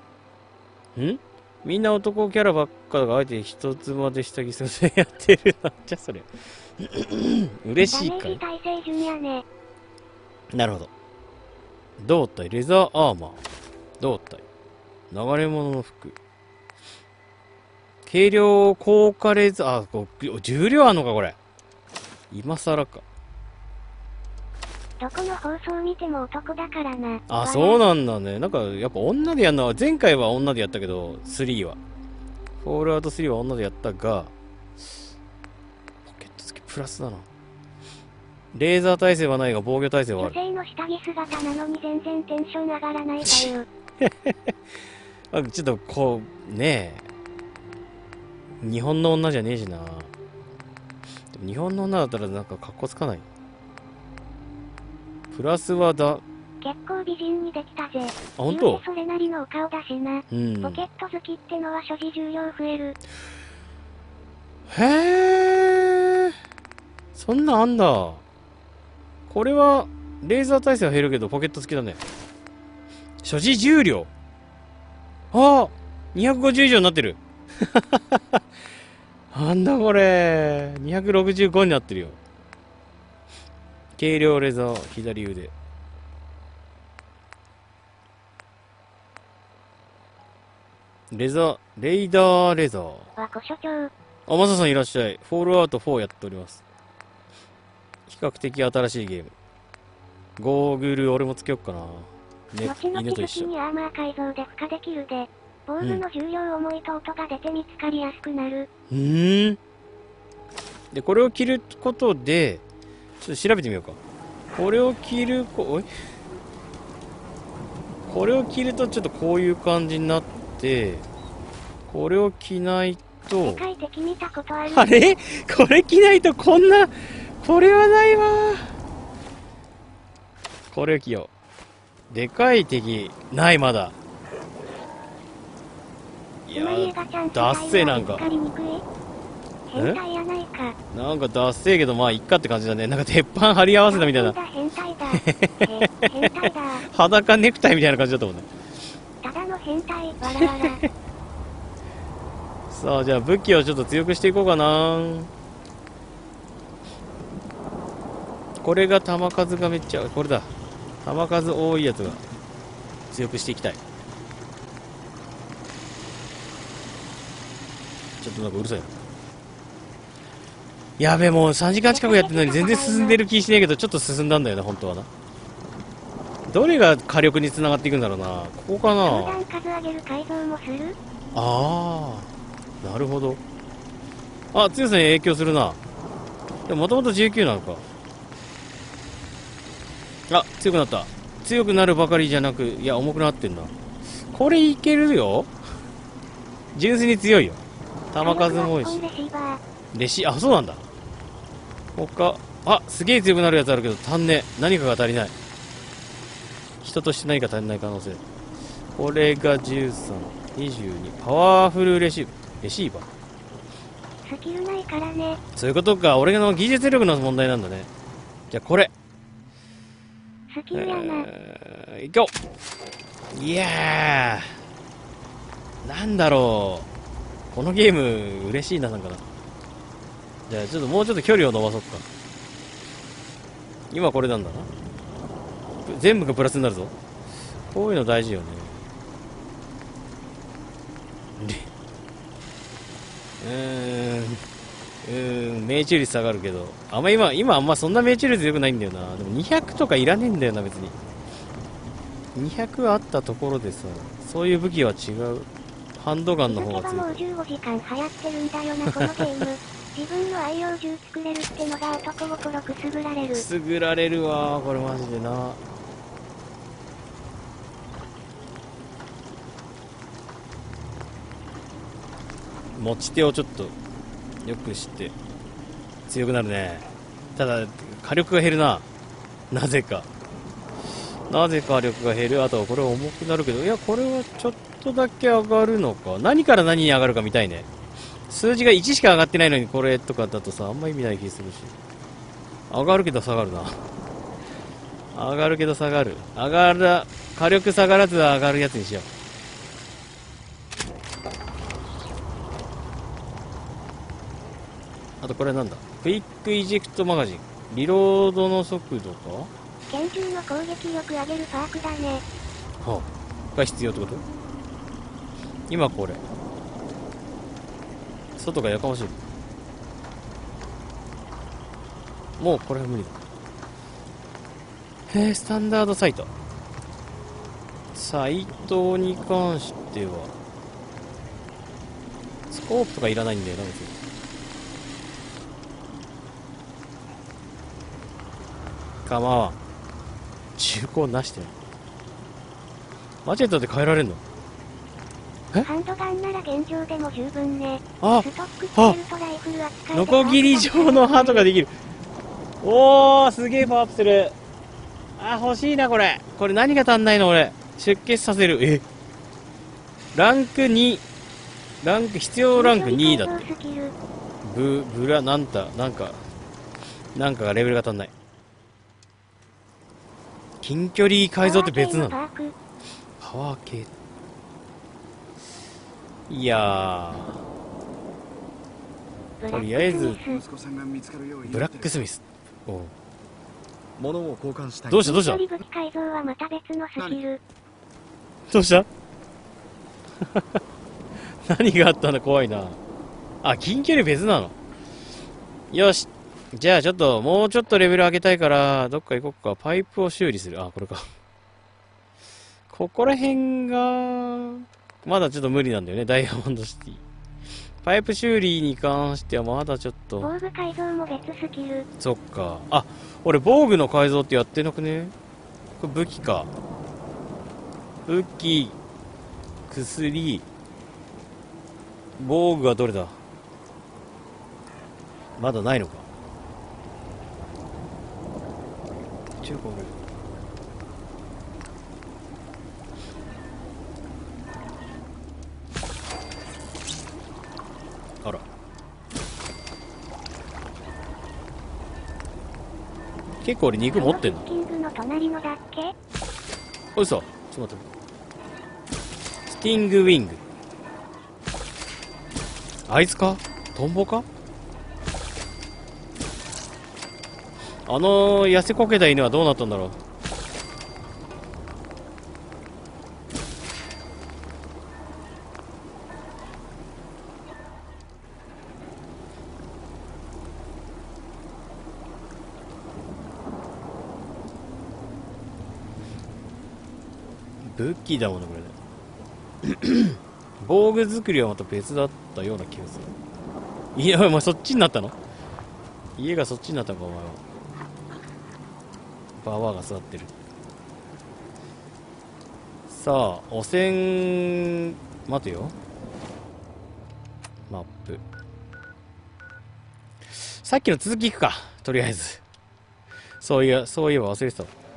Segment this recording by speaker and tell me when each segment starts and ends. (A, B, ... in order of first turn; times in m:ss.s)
0:01.0-0:08.4 A
0:07.9-0:09.4 B
0:10.5-0:10.9 A
0:12.0-0:13.4 A
0:14.0-0:14.4 A
0:15.1-0:16.2 A
0:18.0-0:21.4 A
0:22.3-0:23.0 A
0:25.0-0:27.8 B
0:27.3-0:31.8 A
0:32.6-0:34.3 A
0:36.1-0:37.3 A
0:38.5-0:40.4 A
0:40.2-0:43.7 B
0:43.2-0:44.6 A
0:45.3-0:47.1 A
0:48.6-0:50.1 A
0:51.3-0:53.3 A
0:55.3-0:56.2 A
0:56.6-1:03.0 B
0:58.4-0:58.8 A
1:00.3-1:00.9 A
1:04.7-1:06.4 A
1:07.1-1:08.2 A
1:09.3-1:12.0 A
1:13.2-1:14.1 A
1:15.3-1:18.4 A
1:19.3-1:22.2 A
1:24.0-1:25.5 A
1:31.1-1:33.2 A
1:33.2-1:33.9 B
1:34.3-1:36.6 A
1:38.1-1:39.3 A
1:40.4-1:43.5 A
1:42.6-1:48.7 B
1:48.9-1:49.6 A
1:50.9-1:52.6 A
1:53.2-1:54.0 A
1:54.6-1:55.9 A
1:58.1-2:01.1 A
2:01.9-2:03.6 A
2:03.4-2:04.9 B
2:04.7-2:08.7 A
2:10.7-2:11.3 A
2:12.1-2:14.0 A
2:16.5-2:18.3 A
2:16.5-2:18.8 B
2:19.7-2:20.8 B
2:20.9-2:24.4 A
2:23.9-2:26.8 B
2:25.1-2:28.5 A
2:29.2-2:30.8 B
2:30.2-2:30.9 A
2:32.7-2:35.3 A
2:38.6-2:40.5 A
2:41.0-2:42.2 A
2:43.1-2:43.8 A
2:48.2-2:49.0 A
2:51.0-2:55.1 A
2:51.9-2:53.2 B
2:56.5-2:59.4 A
2:59.0-3:01.0 B
3:01.3-3:02.3 A
3:02.8-3:03.4 A
3:04.5-3:05.8 A
3:06.7-3:07.8 A
3:10.3-3:13.8 A
3:14.3-3:15.5 A
3:16.7-3:17.6 A
3:18.1-3:19.0 A
3:18.2-3:19.6 B
3:19.9-3:20.9 A
3:22.0-3:25.3 A
3:26.8-3:28.2 A
3:29.0-3:33.1 A
3:34.2-3:35.4 B
3:35.6-3:37.9 A
3:38.5-3:38.9 A
3:40.5-3:41.3 B
3:40.7-3:42.3 A
3:43.3-3:44.5 A
3:45.8-3:46.9 A
3:47.5-3:49.2 A
3:50.5-3:52.1 A
3:53.9-3:54.7 A
3:55.8-3:56.9 A
3:57.7-3:58.8 A
4:01.4-4:01.7 A
4:03.4-4:04.4 A
4:05.0-4:11.0 A
4:12.4-4:17.2 A
4:16.5-4:23.4 B
4:18.9-4:19.5 A
4:23.3-4:25.6 A
4:32.8-4:33.8 A
4:34.4-4:35.2 A
4:36.1-4:38.9 A
4:39.5-4:40.1 A
4:41.3-4:47.7 A
4:48.3-4:51.8 A
4:52.7-4:53.8 A
4:55.1-4:59.1 A
5:05.2-5:09.5 A
5:09.9-5:12.2 B
5:12.8-5:14.2 A
5:15.7-5:16.2 A
5:18.4-5:19.2 A
5:22.4-5:23.2 A
5:25.1-5:26.3 A
5:27.9-5:30.4 A
5:32.5-5:34.0 A
5:39.1-5:39.6 A
5:40.6-5:41.5 A
5:43.2-5:44.2 A
5:45.6-5:51.5 B
5:48.0-5:49.0 A
5:49.9-5:51.7 A
5:52.6-5:54.4 A
5:55.2-5:58.8 A
6:00.1-6:01.0 A
6:01.8-6:03.4 A
6:02.6-6:03.9 B
6:04.4-6:06.2 A
6:07.2-6:08.1 A
6:10.6-6:12.2 A
6:11.4-6:12.6 B
6:13.2-6:13.9 A
6:16.3-6:17.4 A
6:19.4-6:20.4 B
6:19.5-6:20.2 A
6:20.3-6:22.0 C
6:21.4-6:23.0 A
6:24.0-6:25.2 C
6:24.9-6:25.4 A
6:25.0-6:27.4 B
6:28.5-6:28.9 A
6:30.2-6:30.6 A
6:31.4-6:32.8 A
6:33.4-6:34.6 A
6:35.7-6:41.0 A
6:42.7-6:47.0 A
6:47.8-6:50.3 A
6:50.2-6:51.9 B
6:52.0-6:55.2 A
6:55.8-6:56.5 A
6:58.1-6:58.8 A
6:59.7-7:00.5 A
7:02.2-7:03.2 A
7:05.4-7:06.1 A
7:09.4-7:10.0 A
7:23.4-7:24.4 A
7:23.9-7:25.9 B
7:27.0-7:27.8 A
7:29.5-7:30.4 A
7:32.9-7:34.3 A
7:37.9-7:40.0 A
7:57.6-7:58.8 A
7:59.6-8:03.1 A
8:04.0-8:05.2 A
8:06.2-8:07.4 A
8:09.4-8:10.3 A
8:12.9-8:15.8 A
8:17.7-8:18.2 A
8:20.3-8:22.4 A
8:23.4-8:24.7 A